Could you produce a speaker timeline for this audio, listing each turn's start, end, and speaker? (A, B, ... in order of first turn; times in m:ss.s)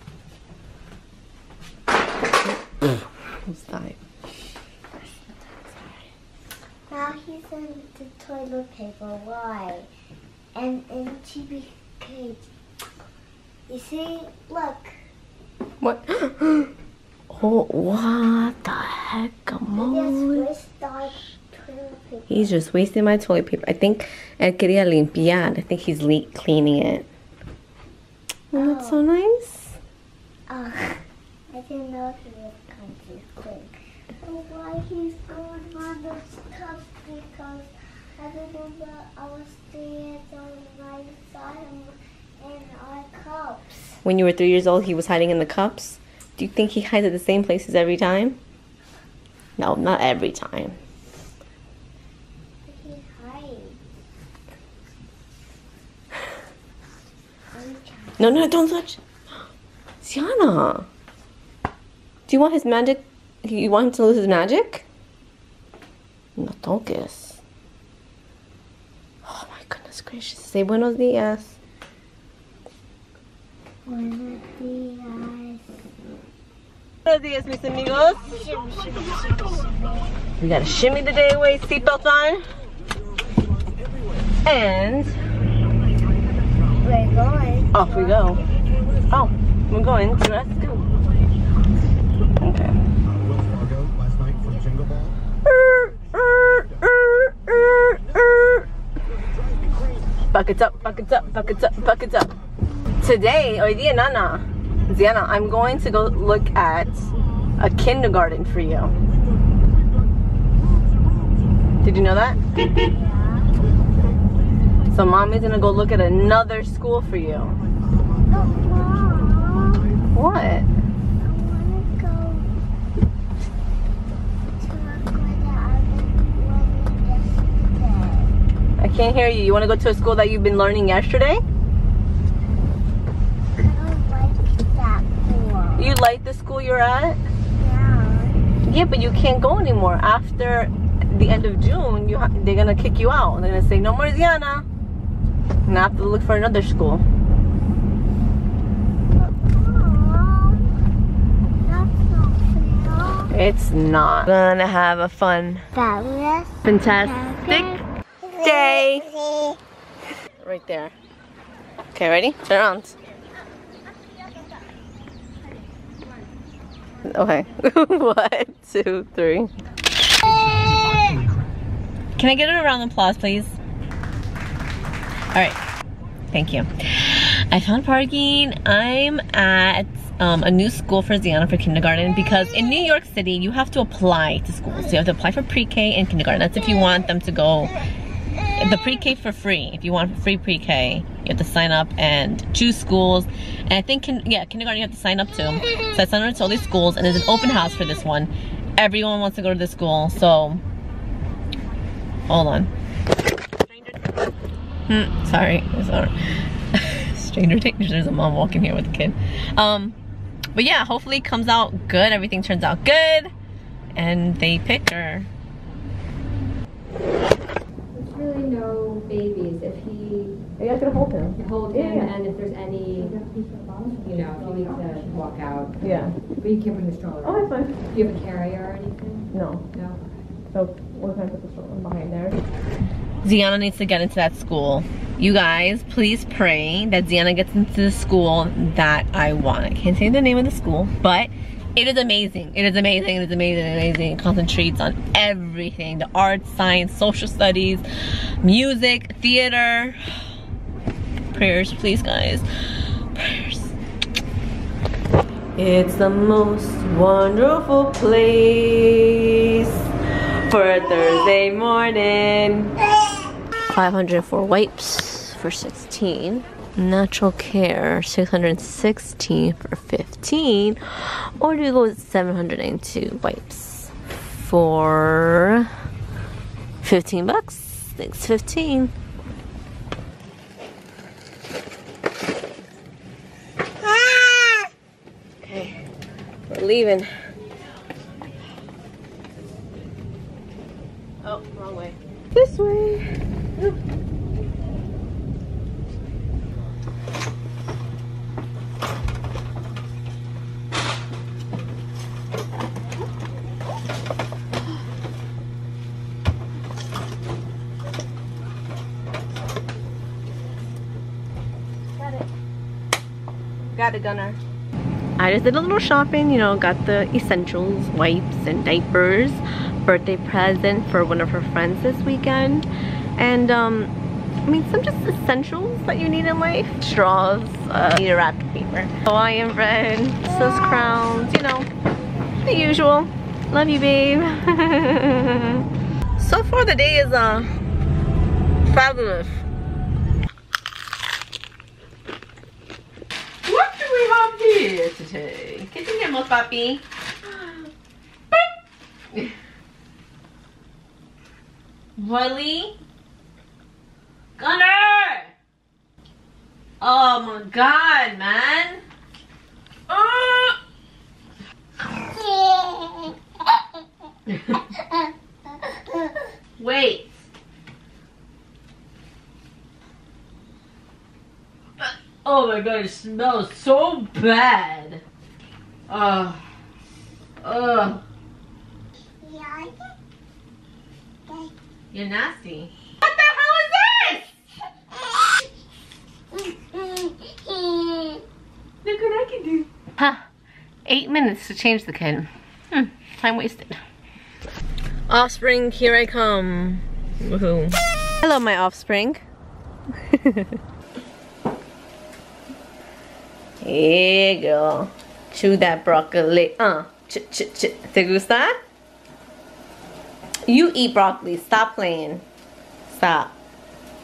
0:02.9-0:04.0 A
0:06.9-0:09.9 B
0:10.5-0:12.4 B
0:13.7-0:15.0 B
0:15.8-0:16.7 A
0:17.3-0:20.5 A
0:19.8-0:22.5 B
0:22.3-0:27.1 A
0:28.5-0:29.8 A
0:28.5-0:29.0 B
0:30.5-0:44.0 B
0:44.0-0:48.4 A
0:49.6-0:50.7 A
0:52.6-0:53.8 B
0:57.5-0:58.5 B
0:58.2-0:59.0 A
1:00.0-1:00.9 A
1:02.3-1:04.8 A
1:06.4-1:07.4 A
1:09.2-1:11.6 A
1:13.9-1:15.8 B
1:17.0-1:18.2 A
1:18.1-1:20.2 B
1:20.4-1:22.4 A
1:24.4-1:25.2 A
1:26.8-1:28.4 B
1:27.7-1:28.4 A
1:29.1-1:30.9 A
1:32.4-1:32.8 A
1:35.4-1:38.6 A
1:40.3-1:42.3 A
1:43.0-1:47.0 A
1:47.6-1:48.9 A
1:51.8-1:52.4 A
1:52.7-1:53.6 B
1:54.9-1:57.6 A
1:58.3-1:59.9 B
2:00.1-2:00.7 A
2:01.2-2:02.5 B
2:04.6-2:08.3 B
2:08.8-2:11.4 A
2:13.6-2:16.0 B
2:15.8-2:17.2 A
2:17.5-2:18.4 B
2:18.6-2:24.6 A
2:25.6-2:27.0 A
2:29.2-2:30.6 B
2:31.6-2:33.3 B
2:33.3-2:35.6 A
2:35.7-2:37.8 B
2:36.6-2:39.1 A
2:38.4-2:39.5 B
2:40.4-2:40.9 A
2:41.9-2:42.9 A
2:47.0-2:49.5 A
2:52.2-2:53.6 A
2:55.3-2:55.6 A
2:56.3-3:07.7 A
3:08.5-3:20.6 A
3:22.3-3:22.7 A
3:24.9-3:26.1 A
3:26.7-3:30.0 A
3:30.5-3:33.3 A
3:33.9-3:35.3 A
3:37.9-3:40.4 C
3:40.6-3:42.2 A
3:41.4-3:45.8 C
3:45.8-3:46.1 A
3:46.3-3:50.0 C
3:47.2-3:47.8 A
3:49.3-3:49.6 A
3:50.5-3:52.4 A
3:53.2-4:07.8 A
4:08.4-4:10.0 A
4:11.3-4:12.4 A
4:13.1-4:13.7 A
4:15.6-4:19.9 A
4:20.4-4:22.8 A
4:23.7-4:35.7 A
4:36.8-4:38.9 A
4:44.0-4:44.6 A
4:45.4-4:45.8 A
4:46.5-4:47.1 A
4:51.2-4:53.0 A
5:12.0-5:12.2 A
5:13.7-5:14.4 A
5:15.2-5:22.7 A
5:23.2-5:23.9 A
5:24.4-5:31.7 A
5:32.4-5:35.6 A
5:36.2-5:37.5 A
5:38.6-5:39.3 A
5:43.4-5:47.6 A
5:52.0-5:52.7 A
5:54.4-5:55.3 A
5:56.8-5:58.8 A
5:59.9-6:00.6 A
6:04.3-6:04.6 A
6:06.6-6:07.1 A
6:11.8-6:15.0 A
6:15.9-6:16.4 A
6:17.4-6:18.0 A
6:19.2-6:19.9 B
6:21.3-6:21.5 B
6:21.9-6:24.3 A
6:26.5-6:28.2 B
6:28.8-6:30.2 A
6:30.8-6:33.8 A
6:35.1-6:39.2 A
6:40.1-6:40.6 A
6:43.6-6:48.6 A
6:50.4-6:52.2 A
6:52.9-6:53.3 A